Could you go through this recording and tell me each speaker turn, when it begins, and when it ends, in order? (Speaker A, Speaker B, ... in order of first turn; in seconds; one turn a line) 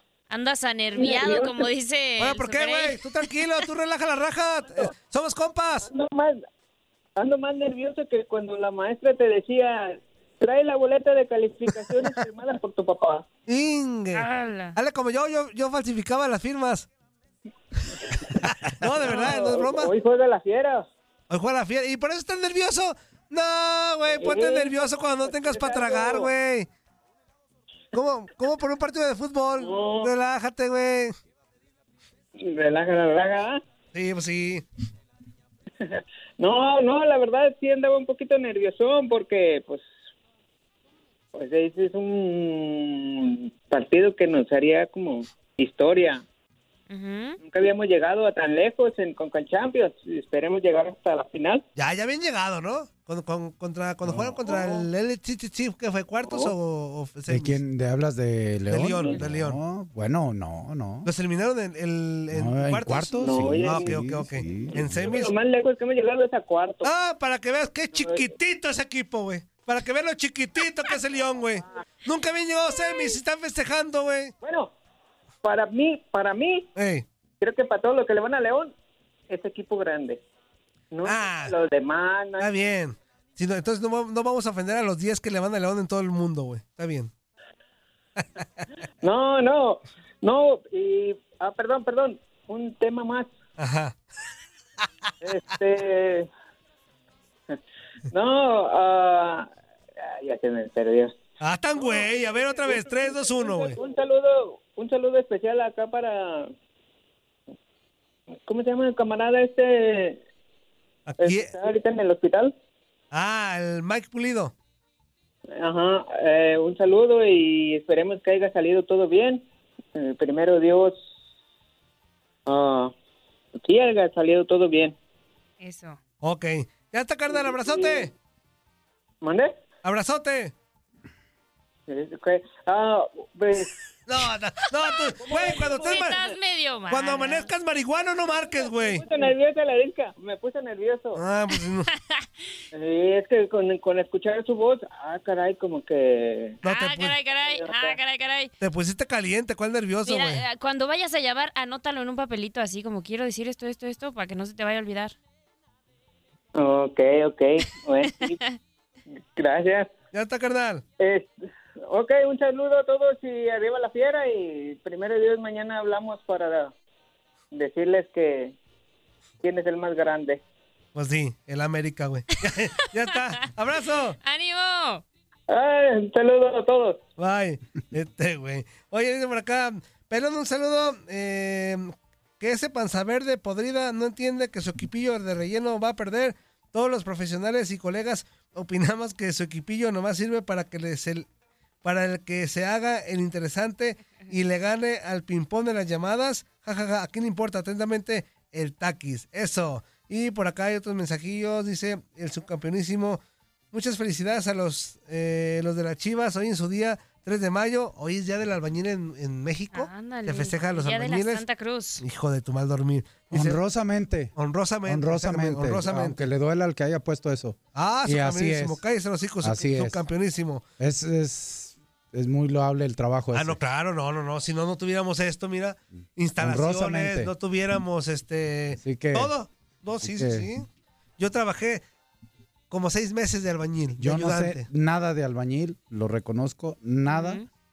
Speaker A: 0.3-3.2
Speaker B: 0.9-1.7
Speaker C: 2.2-5.9
Speaker B: 5.8-6.4
Speaker B: 7.2-13.3
Speaker C: 13.5-16.9
Speaker A: 14.1-14.8
Speaker C: 18.5-19.9
Speaker B: 19.1-20.9
Speaker C: 21.3-26.7
Speaker B: 24.1-26.3
Speaker C: 27.9-31.1
Speaker B: 29.6-30.1
Speaker B: 32.4-33.6
Speaker C: 33.9-34.6
Speaker B: 35.9-39.9
Speaker B: 41.3-46.2
Speaker A: 46.9-47.4
Speaker B: 47.4-51.6
Speaker C: 51.8-57.6
Speaker D: 54.0-54.4
Speaker B: 54.4-54.9
Speaker B: 56.2-56.5
Speaker D: 57.3-61.1
Speaker C: 58.7-59.6
Speaker C: 61.0-65.3
Speaker D: 62.3-65.0
Speaker B: 63.2-64.0
Speaker B: 64.6-66.9
Speaker C: 66.8-74.3
Speaker B: 68.0-68.3
Speaker B: 74.4-74.7
Speaker B: 75.4-76.7
Speaker C: 76.8-77.0
Speaker B: 77.4-78.7
Speaker B: 79.3-80.2
Speaker B: 80.9-82.5
Speaker C: 81.0-81.5
Speaker C: 82.4-87.1
Speaker B: 89.0-93.3
Speaker C: 93.6-94.0
Speaker B: 95.2-96.3
Speaker B: 98.1-101.2
Speaker C: 101.4-103.8
Speaker B: 101.8-106.5
Speaker B: 108.4-110.2
Speaker C: 111.1-111.5
Speaker B: 111.2-112.5
Speaker C: 113.1-114.5
Speaker B: 115.6-119.4
Speaker B: 120.0-121.1
Speaker B: 122.5-122.9
Speaker B: 123.6-125.0
Speaker A: 125.6-126.0
Speaker C: 126.2-128.1
Speaker B: 127.3-128.1
Speaker B: 129.2-129.6
Speaker C: 129.8-130.5
Speaker B: 131.9-133.7
Speaker C: 134.1-136.2
Speaker B: 135.2-136.3
Speaker A: 135.3-137.5
Speaker C: 136.9-139.1
Speaker B: 138.5-141.2
Speaker C: 141.2-141.9
Speaker A: 141.9-142.2
Speaker B: 142.7-146.6
Speaker C: 146.6-147.2
Speaker A: 146.6-148.5
Speaker B: 147.4-148.0
Speaker C: 148.6-150.4
Speaker A: 150.1-155.1
Speaker B: 156.6-158.4
Speaker A: 158.2-158.6
Speaker B: 159.3-159.9
Speaker C: 160.1-160.8
Speaker B: 161.0-166.7
Speaker B: 167.5-168.6
Speaker B: 169.4-170.4
Speaker C: 170.9-174.2
Speaker A: 174.2-175.0
Speaker B: 175.5-177.0
Speaker C: 177.2-191.3
Speaker C: 191.8-203.2
Speaker C: 203.7-211.4
Speaker A: 209.7-212.0
Speaker C: 212.0-213.6
Speaker D: 213.3-214.3
Speaker C: 214.4-216.2
Speaker D: 214.9-218.8
Speaker C: 217.8-220.6
Speaker D: 219.4-220.0
Speaker D: 220.8-223.6
Speaker C: 223.3-230.7
Speaker D: 226.4-227.3
Speaker D: 228.8-229.3
Speaker D: 230.0-230.5
Speaker C: 231.2-231.8
Speaker C: 232.7-234.7
Speaker D: 234.0-237.4
Speaker A: 237.1-237.5